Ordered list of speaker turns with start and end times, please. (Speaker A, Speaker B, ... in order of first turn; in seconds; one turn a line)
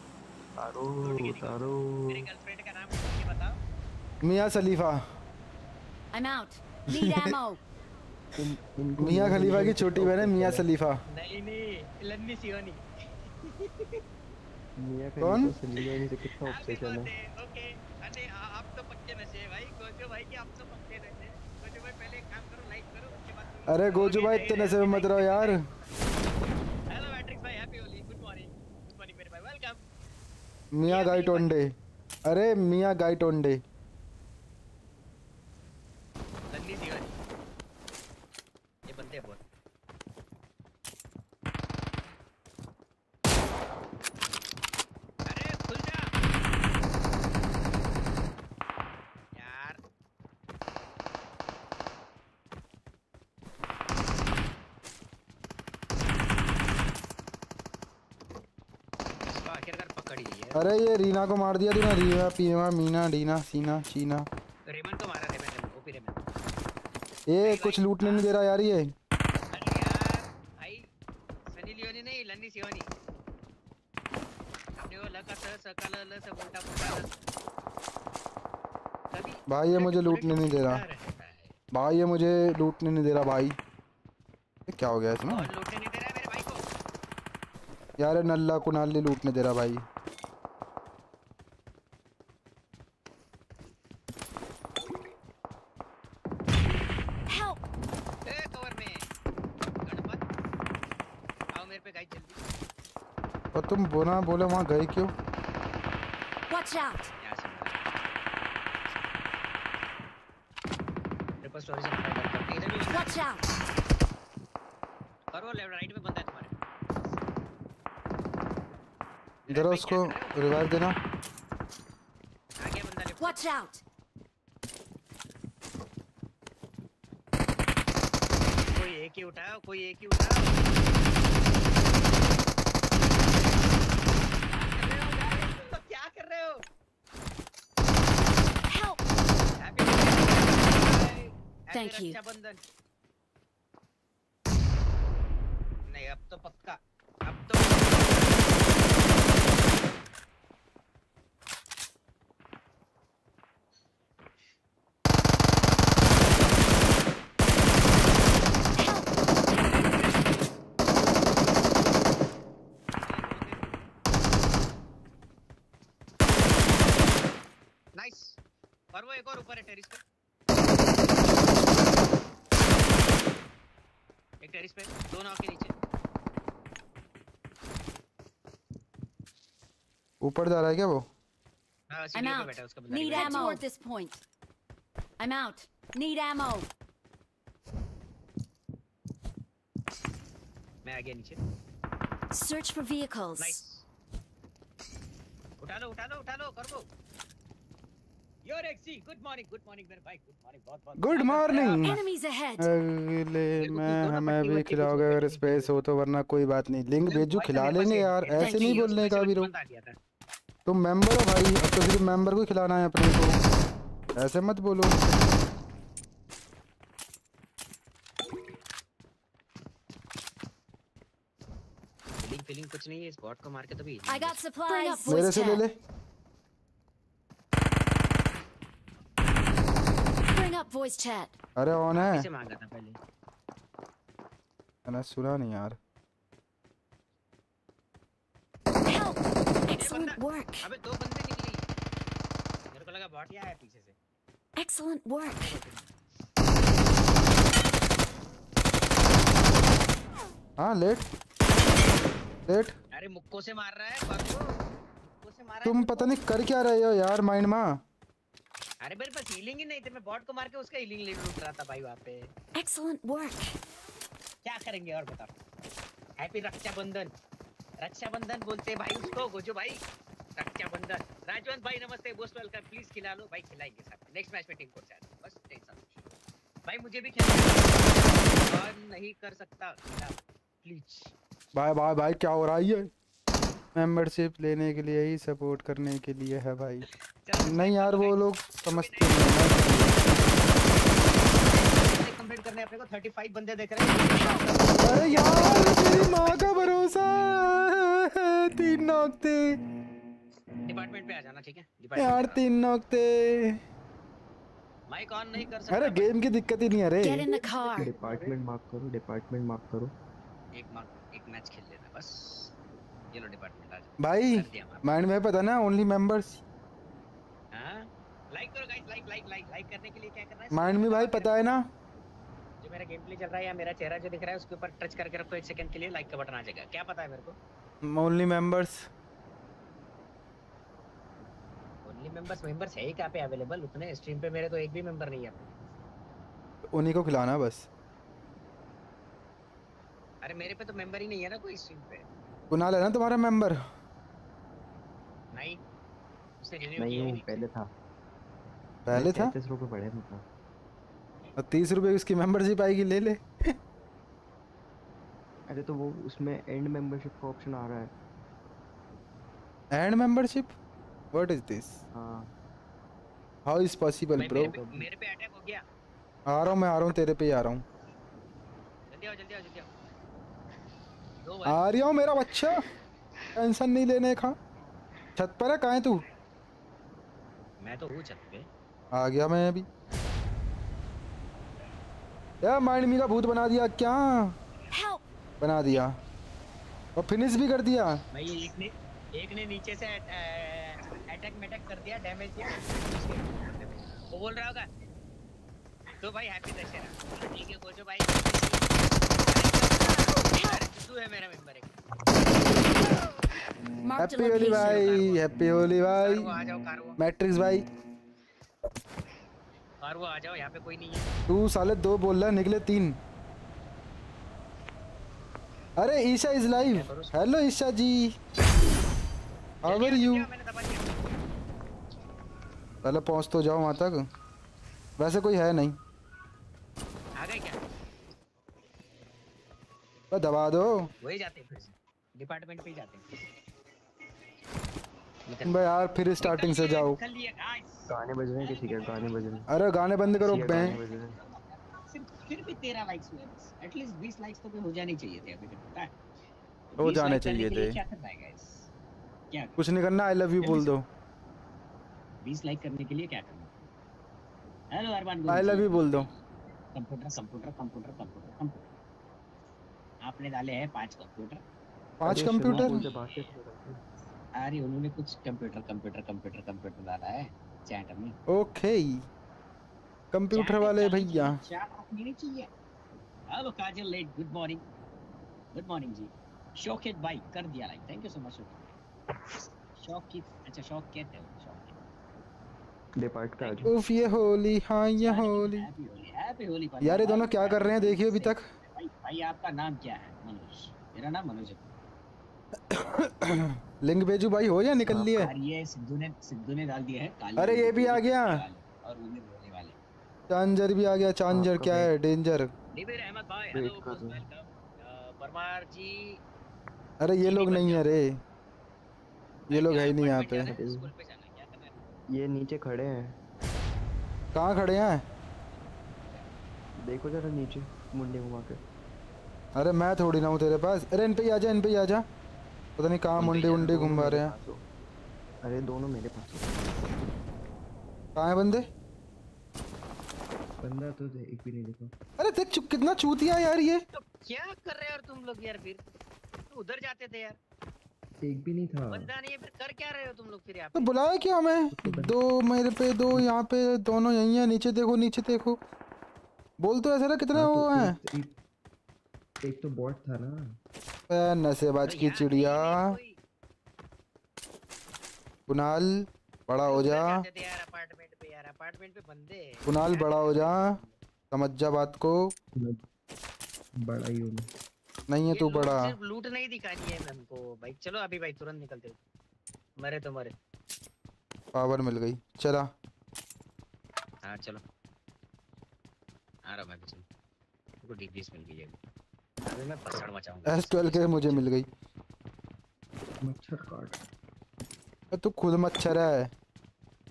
Speaker A: 0.6-2.3
Speaker B: 1.0-3.6
Speaker C: 4.2-5.1
Speaker D: 6.1-7.6
Speaker C: 6.9-7.3
Speaker A: 8.3-10.7
Speaker C: 9.0-11.0
Speaker B: 11.1-12.8
Speaker B: 13.4-14.0
Speaker A: 14.8-17.1
Speaker C: 15.2-15.5
Speaker B: 16.4-25.8
Speaker C: 23.7-25.6
Speaker B: 26.9-29.8
Speaker C: 30.7-31.7
Speaker B: 30.9-31.5
Speaker C: 32.2-33.6
Speaker B: 36.5-37.2
Speaker B: 38.9-39.4
Speaker B: 45.2-46.1
Speaker B: 49.3-49.8
Speaker B: 59.2-60.7
Speaker C: 60.5-64.3
Speaker B: 64.7-66.3
Speaker C: 67.3-68.9
Speaker B: 67.4-68.3
Speaker B: 69.5-70.9
Speaker B: 71.5-72.9
Speaker B: 74.8-77.1
Speaker B: 79.1-81.5
Speaker C: 79.5-80.8
Speaker C: 81.7-83.6
Speaker C: 84.7-85.5
Speaker B: 85.3-86.6
Speaker C: 88.0-89.8
Speaker D: 97.3-97.6
Speaker B: 98.2-99.1
Speaker B: 99.8-100.2
Speaker B: 101.5-102.4
Speaker C: 103.5-105.1
Speaker D: 106.5-107.1
Speaker B: 107.2-108.0
Speaker B: 111.4-113.1
Speaker D: 112.9-113.5
Speaker B: 115.3-116.6
Speaker B: 119.5-120.5
Speaker C: 119.5-121.0
Speaker B: 122.6-123.4
Speaker D: 123.2-123.8
Speaker B: 128.7-130.7
Speaker B: 134.5-136.6
Speaker D: 138.7-139.0
Speaker B: 139.6-142.6
Speaker D: 141.7-142.2
Speaker B: 145.9-148.3
Speaker D: 158.8-159.1
Speaker B: 163.0-163.8
Speaker B: 167.9-168.4
Speaker B: 168.9-170.0
Speaker B: 174.4-175.8
Speaker C: 180.2-181.1
Speaker B: 181.9-183.6
Speaker D: 182.1-184.2
Speaker D: 185.2-186.7
Speaker B: 190.8-191.4
Speaker D: 192.3-193.6
Speaker B: 193.4-193.8
Speaker B: 195.6-196.9
Speaker B: 198.4-202.0
Speaker C: 201.0-202.1
Speaker D: 201.7-202.7
Speaker C: 202.6-209.5
Speaker B: 203.6-205.8
Speaker B: 207.0-209.9
Speaker D: 208.4-208.8
Speaker C: 210.7-213.4
Speaker C: 214.1-215.0
Speaker B: 222.2-224.4
Speaker D: 224.1-225.6
Speaker C: 225.1-225.8
Speaker D: 230.3-231.3
Speaker C: 231.6-232.3
Speaker B: 231.9-233.0
Speaker C: 234.8-235.8
Speaker D: 238.8-240.6
Speaker B: 239.8-241.7
Speaker B: 242.7-243.9
Speaker D: 244.6-245.4
Speaker B: 245.3-245.9
Speaker C: 250.6-251.1
Speaker C: 252.5-252.8
Speaker B: 252.9-256.2
Speaker C: 255.6-257.8
Speaker B: 258.8-262.3
Speaker D: 262.5-263.6
Speaker B: 264.4-265.3
Speaker B: 266.2-267.1
Speaker B: 267.8-269.8
Speaker B: 270.4-275.9
Speaker B: 276.6-281.1
Speaker C: 281.5-282.9
Speaker C: 283.7-286.9
Speaker B: 287.2-290.1
Speaker C: 287.4-289.9
Speaker B: 291.3-297.4
Speaker C: 294.8-299.6
Speaker B: 300.6-302.4
Speaker C: 301.9-303.6
Speaker B: 304.9-306.2
Speaker C: 305.7-307.3
Speaker D: 307.0-307.9
Speaker B: 307.7-308.4
Speaker A: 307.7-309.9
Speaker B: 310.5-312.5
Speaker B: 313.1-315.1
Speaker C: 314.0-316.4
Speaker B: 317.5-321.4
Speaker C: 320.5-321.6
Speaker B: 322.6-327.4
Speaker C: 327.8-328.9
Speaker B: 331.8-335.6
Speaker C: 336.7-337.7
Speaker B: 340.2-342.0
Speaker C: 342.5-343.6
Speaker B: 345.3-345.6
Speaker B: 346.4-347.4
Speaker A: 346.8-347.7
Speaker C: 348.9-349.3
Speaker A: 348.9-350.2
Speaker C: 351.4-353.6
Speaker A: 355.5-357.9
Speaker C: 359.7-360.5
Speaker C: 361.1-361.8
Speaker A: 361.9-362.3
Speaker C: 363.4-364.5
Speaker B: 364.2-365.6
Speaker A: 364.2-364.9
Speaker C: 366.3-367.6
Speaker B: 368.9-369.7
Speaker B: 371.2-371.7
Speaker C: 371.4-372.6
Speaker C: 373.4-374.4
Speaker C: 375.1-376.0
Speaker B: 377.6-378.5
Speaker C: 378.9-379.7
Speaker C: 382.4-384.4
Speaker D: 384.7-385.0
Speaker C: 385.4-385.9
Speaker C: 386.9-388.0
Speaker B: 388.1-394.7
Speaker B: 396.0-401.7
Speaker D: 403.8-405.0
Speaker C: 404.0-406.3
Speaker B: 404.5-405.2
Speaker B: 406.0-407.0
Speaker C: 407.0-407.6
Speaker B: 409.8-411.1
Speaker C: 411.3-413.0
Speaker C: 415.8-418.1
Speaker B: 416.6-417.2
Speaker C: 419.6-420.3
Speaker B: 419.6-420.9
Speaker C: 422.8-424.1
Speaker C: 425.0-425.8
Speaker B: 427.1-427.6
Speaker C: 430.1-430.9
Speaker B: 431.0-433.2
Speaker B: 435.3-435.6
Speaker C: 435.4-437.0
Speaker B: 436.2-445.9
Speaker A: 437.9-439.5
Speaker C: 439.5-440.8
Speaker A: 440.2-441.2
Speaker B: 446.7-448.7
Speaker C: 446.8-447.8
Speaker B: 449.3-449.6
Speaker C: 449.6-450.9
Speaker B: 450.4-450.7
Speaker B: 452.2-453.7
Speaker B: 454.7-456.2
Speaker C: 455.3-456.1
Speaker B: 456.7-458.7
Speaker B: 460.0-461.4
Speaker C: 462.0-462.9
Speaker A: 462.0-463.8
Speaker B: 462.4-463.3
Speaker B: 464.4-468.2
Speaker C: 468.3-469.1
Speaker C: 470.1-471.4
Speaker B: 470.3-472.5
Speaker B: 473.3-474.6
Speaker B: 475.5-478.7
Speaker B: 479.8-481.8
Speaker A: 483.0-483.7
Speaker B: 483.4-483.7
Speaker C: 483.6-485.7
Speaker B: 485.0-491.6
Speaker C: 486.8-488.4
Speaker C: 492.7-495.3
Speaker A: 494.9-495.2
Speaker B: 495.1-499.8
Speaker C: 497.4-498.4
Speaker C: 500.3-502.5
Speaker A: 501.3-501.9
Speaker B: 502.7-506.2
Speaker A: 503.5-504.2
Speaker C: 507.0-508.2
Speaker B: 507.2-507.9
Speaker C: 509.5-510.5
Speaker B: 509.5-511.8
Speaker A: 510.4-510.9
Speaker A: 512.1-513.1
Speaker C: 514.3-515.0
Speaker B: 515.7-516.3
Speaker A: 516.8-518.6
Speaker C: 519.5-522.0
Speaker C: 522.8-524.3
Speaker B: 523.2-523.7
Speaker A: 523.2-524.6
Speaker A: 525.4-526.6
Speaker C: 528.1-528.7
Speaker A: 530.6-531.9
Speaker C: 532.2-533.8
Speaker B: 533.9-535.8
Speaker B: 536.5-537.4
Speaker A: 538.2-539.1
Speaker B: 538.9-540.9
Speaker C: 540.7-545.6
Speaker A: 541.7-542.1
Speaker C: 546.6-548.0
Speaker A: 547.3-548.3
Speaker A: 549.4-550.4
Speaker C: 551.1-552.9
Speaker B: 551.8-553.2
Speaker C: 555.5-557.2
Speaker B: 556.6-560.9
Speaker C: 559.6-560.8
Speaker C: 561.3-562.3
Speaker A: 563.8-564.5
Speaker C: 565.1-565.9
Speaker B: 565.3-569.0
Speaker B: 569.8-570.3
Speaker C: 571.5-572.7
Speaker B: 574.2-574.6
Speaker B: 576.4-577.0
Speaker B: 577.8-578.8
Speaker B: 579.5-581.5
Speaker C: 580.5-581.7
Speaker A: 583.2-584.0
Speaker C: 585.1-586.3